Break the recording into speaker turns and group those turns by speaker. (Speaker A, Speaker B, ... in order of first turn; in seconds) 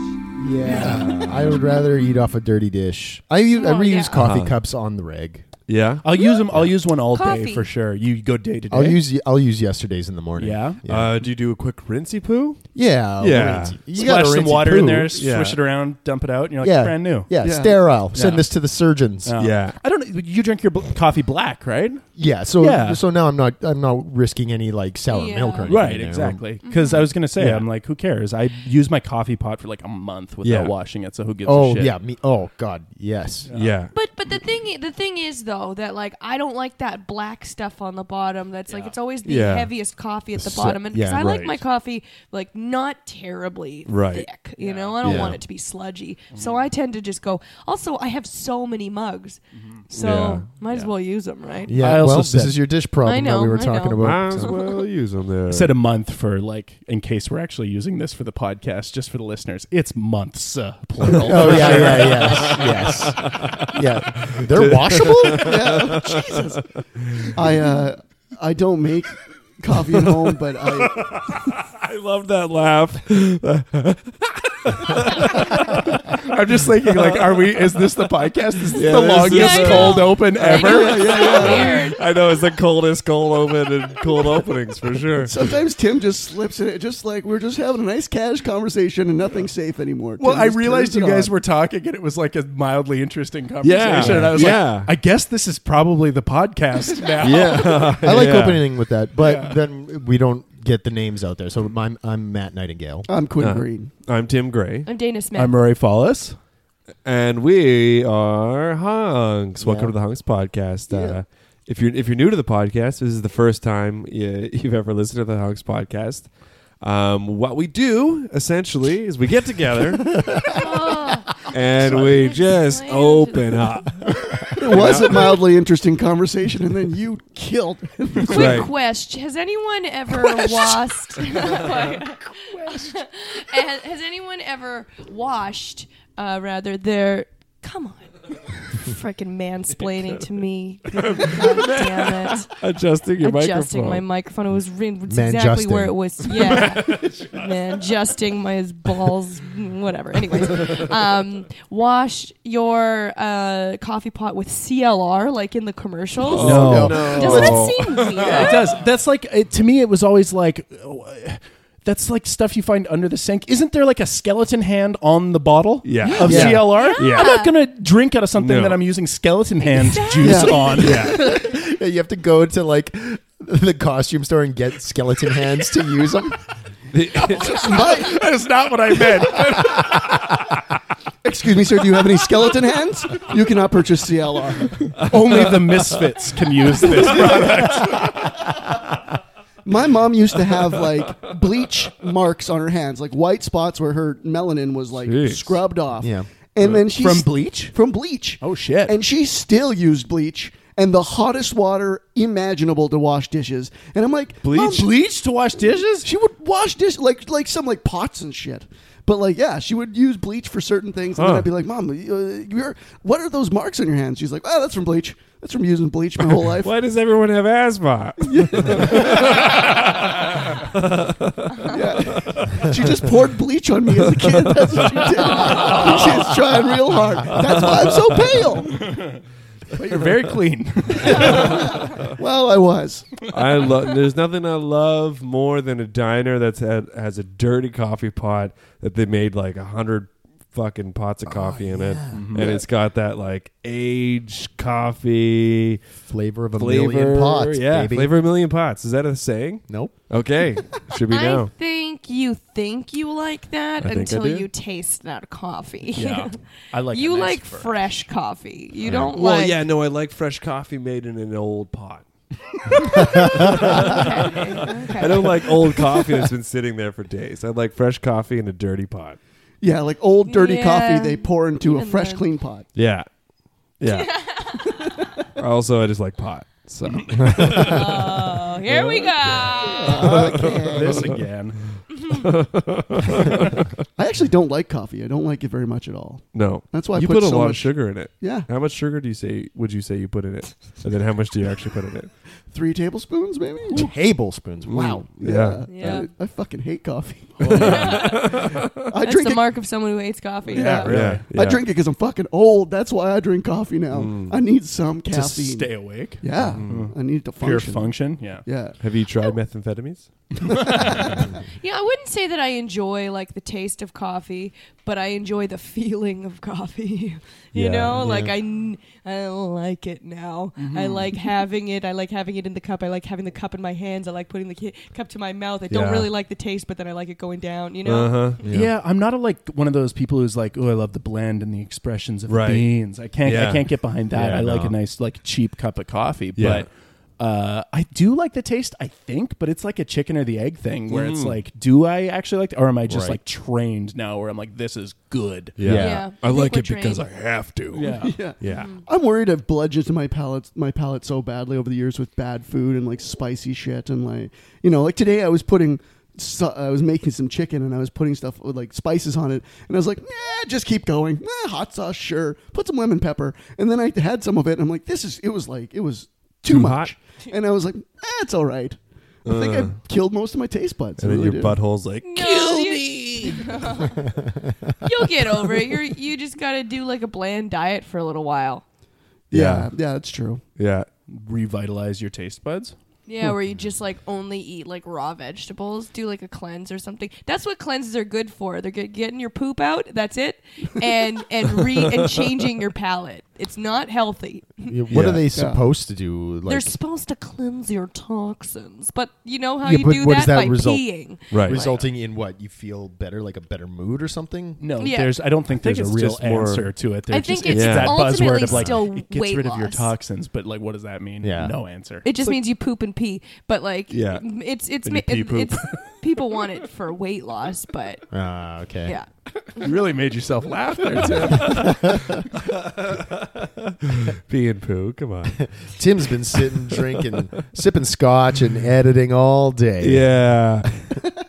Speaker A: 0.4-5.5, 8.7-11.2, 12.7-15.2, 16.6-19.4, 22.1-26.4, 31.4-33.6, 40.4-41.2, 45.0-45.4, 51.7-54.7, 61.2-65.8, 94.0-94.3, 97.9-103.1, 109.6-109.9, 110.9-111.2, 120.1-120.6, 145.1-146.3, 166.2-166.7, 170.9-176.4, 196.0-196.3, 241.2-242.5, 246.0-248.1, 249.7-250.0, 258.8-259.1, 263.0-263.7, 277.3-277.6, 279.6-281.2, 293.7-295.1, 328.4-328.7, 342.9-343.2, 345.6-346.1, 394.6-396.7, 399.6-404.6, 411.2-411.6, 418.1-419.0, 421.3-422.1, 425.4-430.1
Speaker B: 0.6-1.2, 6.0-9.0, 10.4-10.8, 13.9-17.3, 18.1-18.5, 19.2-22.0, 22.6-23.0, 25.6-31.9, 33.5-33.7, 44.6-45.2, 46.3-46.6, 49.5-49.8, 51.7-52.6, 55.5-62.6, 76.0-81.1, 90.2-98.2, 99.2-99.6, 105.3-106.4, 121.9-122.2, 132.5-133.0, 156.4-157.4, 158.2-171.0, 177.7-179.9, 184.9-188.2, 196.6-197.8, 198.4-199.0, 204.5-206.1, 228.7-229.2, 229.7-231.7, 242.1-242.4, 255.9-257.7, 276.8-277.8, 278.7-279.5, 280.4-281.6, 297.4-298.0, 300.5-301.2, 305.1-308.4, 310.6-311.0, 320.6-321.1, 328.4-336.7, 337.2-345.6, 347.7-348.1, 381.1-382.7, 404.6-412.0, 419.6-422.1
Speaker C: 3.5-4.2, 6.2-6.4, 7.1-7.7, 25.1-25.8, 26.6-27.1, 33.9-51.9, 53.0-54.5, 79.2-82.0, 104.8-105.6, 120.5-123.8, 128.3-142.7, 143.2-158.8, 166.6-167.6, 169.6-171.5, 251.1-259.6, 262.8-265.4, 270.3-272.2, 273.8-275.0, 277.6-280.1, 281.9-282.3, 295.7-296.1, 297.5-298.4, 299.0-300.9, 311.6-328.4, 345.7-347.1, 348.4-348.8, 372.0-374.1, 374.8-378.6, 383.1-394.8, 396.4-401.8, 404.8-405.2, 407.1-409.9, 412.0-418.0, 418.8-419.8
Speaker D: 4.1-4.6, 5.7-6.0, 10.9-13.8, 15.2-15.6, 19.4-19.8, 27.4-27.7, 30.4-30.7, 33.5-33.9, 39.2-39.7, 41.1-41.6, 43.9-44.3, 45.0-45.4, 49.9-50.5, 54.0-55.7, 61.3-67.8, 69.9-77.8, 78.7-80.2, 80.9-85.4, 93.6-94.9, 97.2-98.6, 103.4-104.9, 107.0-116.3, 116.8-120.3, 121.4-125.4, 128.3-128.7, 140.9-144.0, 146.5-147.3, 156.2-158.6, 165.8-167.2, 168.4-168.8, 170.8-171.2, 176.9-177.9, 185.3-185.9, 186.9-187.3, 195.0-195.6, 204.4-204.9, 211.2-211.5, 216.2-223.0, 224.3-226.2, 227.3-228.4, 231.3-231.7, 233.3-245.8, 246.5-251.5, 253.8-254.5, 258.9-262.0, 262.7-269.2, 272.7-273.1, 273.8-274.2, 275.4-278.4, 279.5-281.0, 282.1-283.7, 286.3-292.1, 294.6-296.0, 297.4-298.8, 300.8-301.6, 303.9-304.4, 306.4-306.8, 308.8-310.1, 317.5-318.4, 325.7-326.1, 327.8-328.7, 332.3-334.7, 336.4-336.6, 340.9-341.4, 345.6-348.7, 366.5-366.9, 369.2-369.8, 371.0-373.5, 379.3-379.7, 380.6-380.9, 394.9-395.3, 401.3-401.6, 405.5-406.7, 407.5-408.2, 413.9-415.8, 422.4-425.4, 426.7-427.0, 429.8-431.0
Speaker E: 17.4-17.8, 65.3-66.6, 67.3-71.1, 80.5-81.8, 85.2-91.3, 103.1-103.9, 124.5-128.6, 156.4-157.6, 170.2-170.8, 177.2-178.2, 181.2-185.1, 189.6-204.9, 206.0-216.7, 218.2-219.6, 221.6-228.9, 231.2-233.1, 269.6-272.6, 274.6-275.2, 279.9-280.7, 284.0-288.5, 292.5-293.9, 295.2-299.4, 300.5-308.8, 310.7-311.1, 348.0-371.6, 379.3-380.4, 395.3-395.6